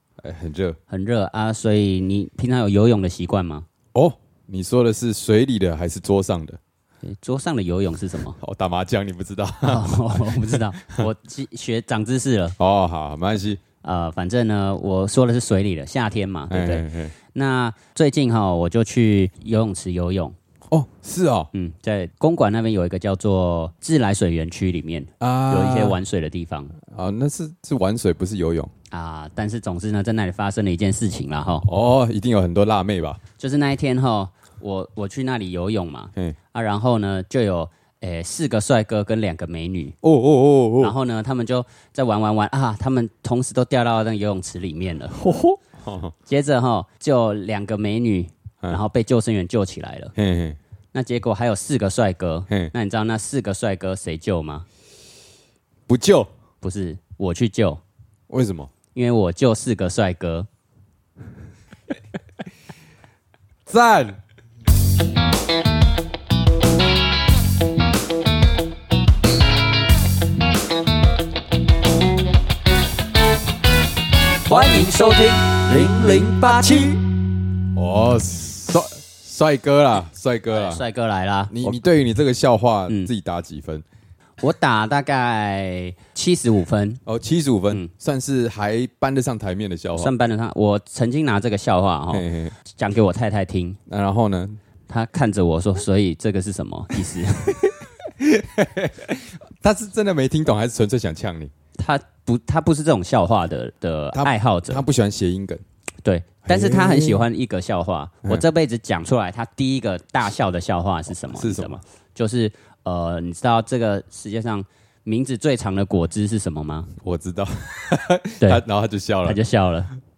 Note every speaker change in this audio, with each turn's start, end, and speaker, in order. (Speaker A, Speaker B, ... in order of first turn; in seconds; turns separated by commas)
Speaker A: 0.2-0.8, Speaker B: 0.9-3.7, Speaker A: 3.9-6.6, Speaker B: 7.0-8.4, Speaker A: 8.4-11.1, Speaker B: 9.6-12.6, Speaker A: 12.6-13.6, Speaker B: 13.8-20.4, Speaker A: 16.5-17.1, Speaker A: 20.7-21.5, Speaker B: 21.5-26.8, Speaker A: 25.2-26.0, Speaker A: 26.9-28.7, Speaker B: 28.9-31.7, Speaker A: 31.6-33.2, Speaker B: 33.4-40.0, Speaker A: 40.0-40.9, Speaker B: 40.8-45.2, Speaker A: 45.1-46.1, Speaker B: 46.3-50.1, Speaker A: 50.2-50.6, Speaker B: 50.9-54.7, Speaker A: 55.9-56.3, Speaker B: 56.6-57.8, Speaker A: 58.3-58.7, Speaker B: 58.9-60.5, Speaker A: 63.7-64.2, Speaker B: 74.5-77.0, Speaker A: 77.8-80.8, Speaker B: 80.5-81.8, Speaker A: 81.5-83.8, Speaker B: 84.4-87.0, Speaker A: 87.1-90.1, Speaker B: 90.0-93.8, Speaker A: 92.1-92.5, Speaker A: 93.9-94.6, Speaker B: 94.9-97.7, Speaker A: 97.6-101.5, Speaker B: 101.8-104.8, Speaker A: 104.1-105.6, Speaker B: 106.0-116.9, Speaker A: 106.5-107.2, Speaker A: 111.3-111.8, Speaker A: 117.0-119.4, Speaker B: 119.2-119.9